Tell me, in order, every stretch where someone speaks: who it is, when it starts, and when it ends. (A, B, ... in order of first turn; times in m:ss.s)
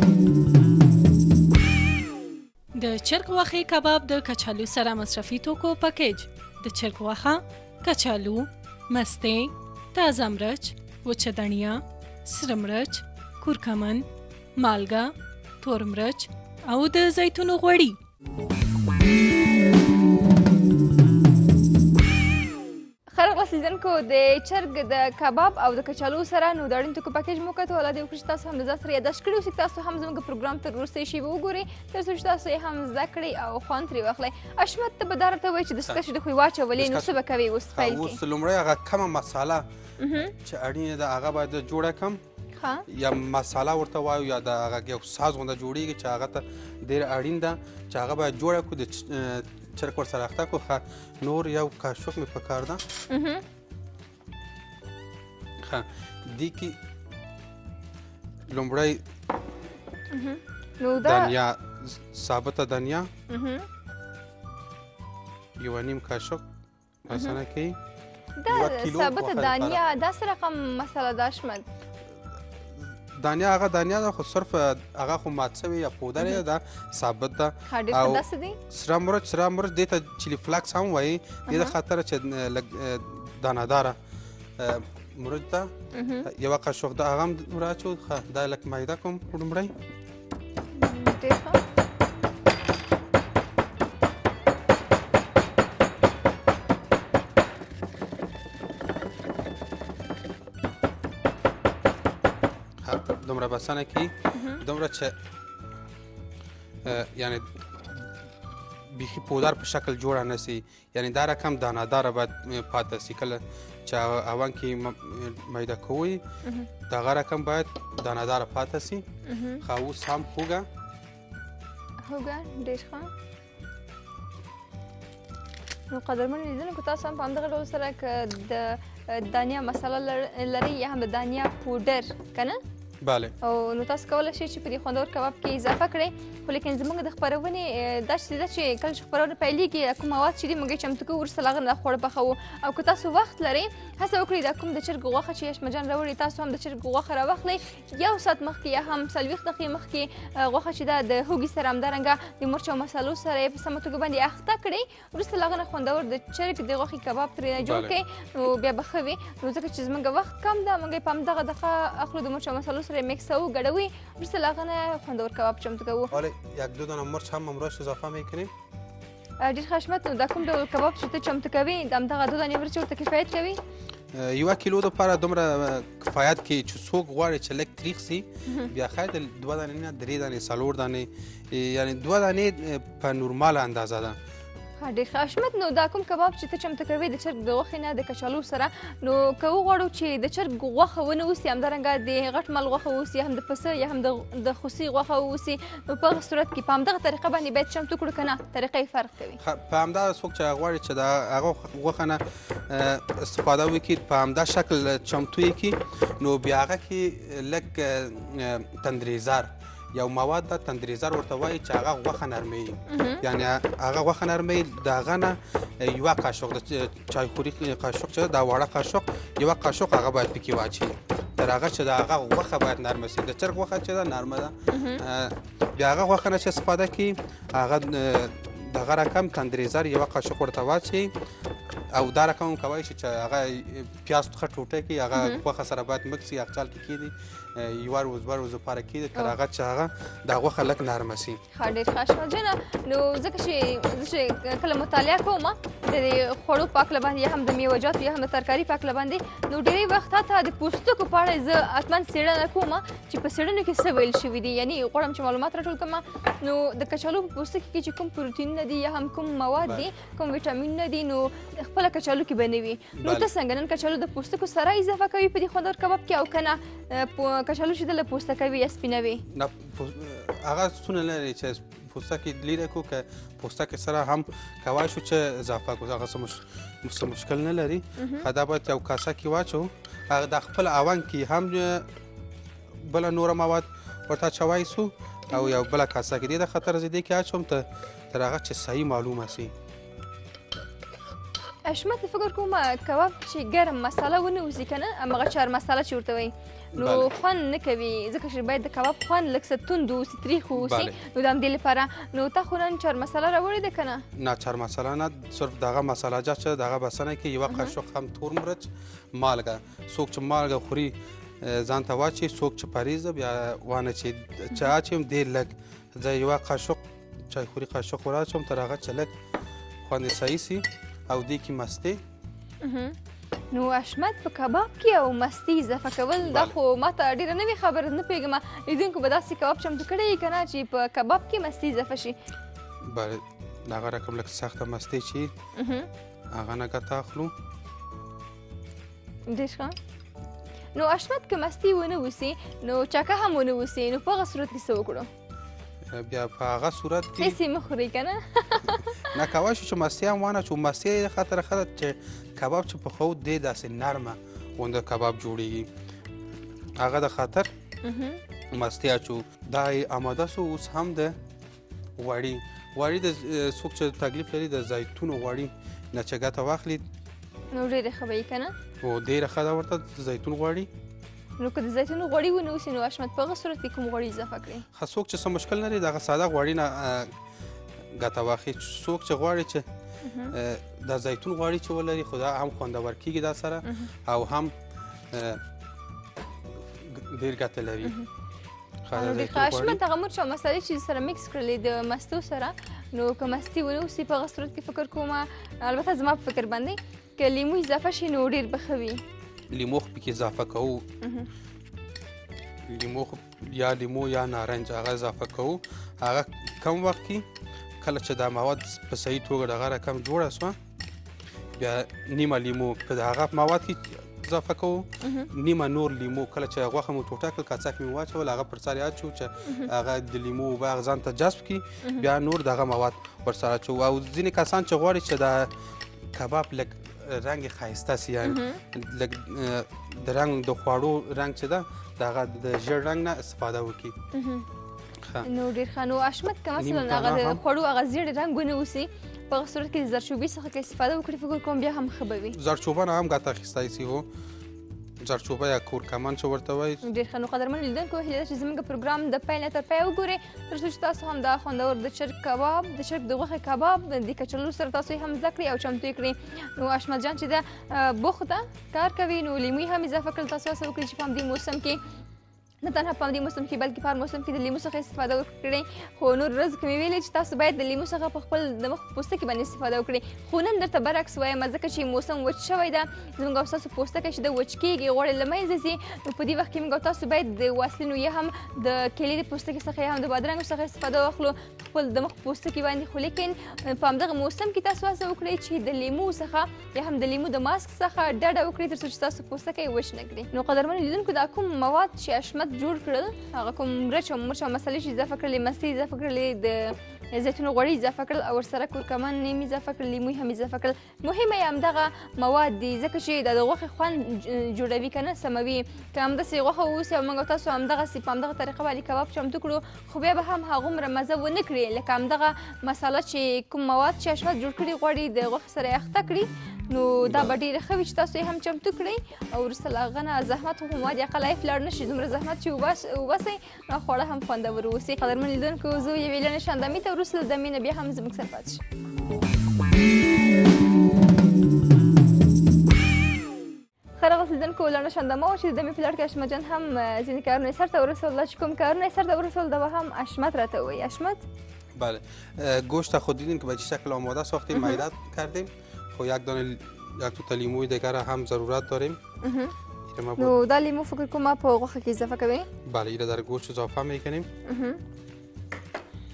0:02.8-0:14.0 A
0:14.6-0:18.0 A
0:23.1-0:38.2 B
0:36.8-0:39.7 C
0:40.0-0:40.3 B
0:40.3-0:42.2 C
0:42.6-0:42.8 B
0:42.9-0:52.8 C
0:53.1-0:53.4 B
0:55.6-0:56.8 C
0:58.5-0:59.0 C
1:00.1-1:01.3 B
1:01.0-1:03.1 C
1:03.3-1:03.7 B
1:05.6-1:06.4 C
1:07.0-1:07.8 C
1:07.1-1:07.4 B
1:08.4-1:11.6 B
1:08.5-1:09.8 C
1:12.8-1:24.0 C
1:17.7-1:18.6 B
1:21.5-1:21.8 B
1:24.6-1:25.7 C
1:25.9-1:26.3 B
1:26.2-1:29.7 C
1:30.7-1:31.6 B
1:42.8-1:45.2 C
1:44.3-1:44.6 B
1:46.8-1:48.1 C
1:48.9-1:56.2 C
1:56.4-1:56.7 B
1:56.9-1:59.1 C
1:59.3-1:59.6 B
1:59.6-2:00.7 C
2:02.0-2:03.1 B
2:05.9-2:12.6 B
2:13.0-2:13.3 C
2:13.4-2:46.1 B
2:37.6-2:38.0 C
2:46.1-2:48.5 C
2:49.4-2:53.6 B
2:54.1-3:04.2 C
3:04.8-3:19.4 B
3:19.4-3:51.1 C
3:32.9-3:33.2 B
3:44.7-3:45.0 B
3:51.9-4:01.4 C
3:55.2-3:55.4 B
4:01.5-4:29.2 B
4:23.0-4:23.3 C
4:29.3-4:41.9 C
4:38.0-4:38.2 B
4:42.8-4:49.5 C
4:51.7-5:04.0 B
4:56.8-4:57.1 C
5:00.6-5:01.0 C
5:04.1-5:19.1 C
5:07.5-5:07.8 B
5:19.8-5:22.0 C
5:22.6-5:23.0 B
5:23.5-5:32.1 B
5:26.2-5:26.5 C
5:32.8-5:35.3 C
5:35.6-5:35.9 B
5:36.3-5:37.3 C
5:39.3-5:39.8 B
5:40.8-5:45.1 B
5:45.9-5:47.4 C
5:47.2-5:49.2 B
5:49.1-5:55.7 C
5:56.8-5:57.5 C
5:57.8-5:58.2 B
5:58.5-6:01.2 C
6:02.0-6:06.9 C
6:07.5-6:08.5 B
6:08.8-6:10.7 C
6:11.4-6:14.6 B
6:14.7-6:17.1 C
6:17.9-6:19.6 C
6:20.0-6:20.3 B
6:20.3-6:24.6 C
6:25.1-6:25.4 C
6:26.6-6:28.0 C
6:27.8-6:28.1 B
6:28.9-6:29.8 C
6:29.0-6:39.0 B
6:39.5-6:40.9 C
6:41.0-6:41.3 B
6:42.7-6:47.3 C
6:47.8-6:50.6 C
6:51.6-7:05.5 C
6:55.0-6:55.3 B
6:59.4-6:59.7 B
7:06.1-7:14.0 C
7:08.2-7:08.6 B
7:14.1-7:14.4 B
7:15.2-7:22.4 B
7:16.6-7:17.4 C
7:22.3-7:24.1 C
7:25.0-7:26.8 C
7:26.8-7:41.8 B
7:42.6-8:48.6 B
8:37.0-8:37.4 C
8:54.0-9:01.2 B
9:01.8-9:09.0 C
9:04.5-9:04.8 B
9:09.2-9:09.5 B
9:09.9-9:10.4 C
9:10.2-9:12.5 B
9:12.6-9:14.3 C
9:14.4-9:14.8 B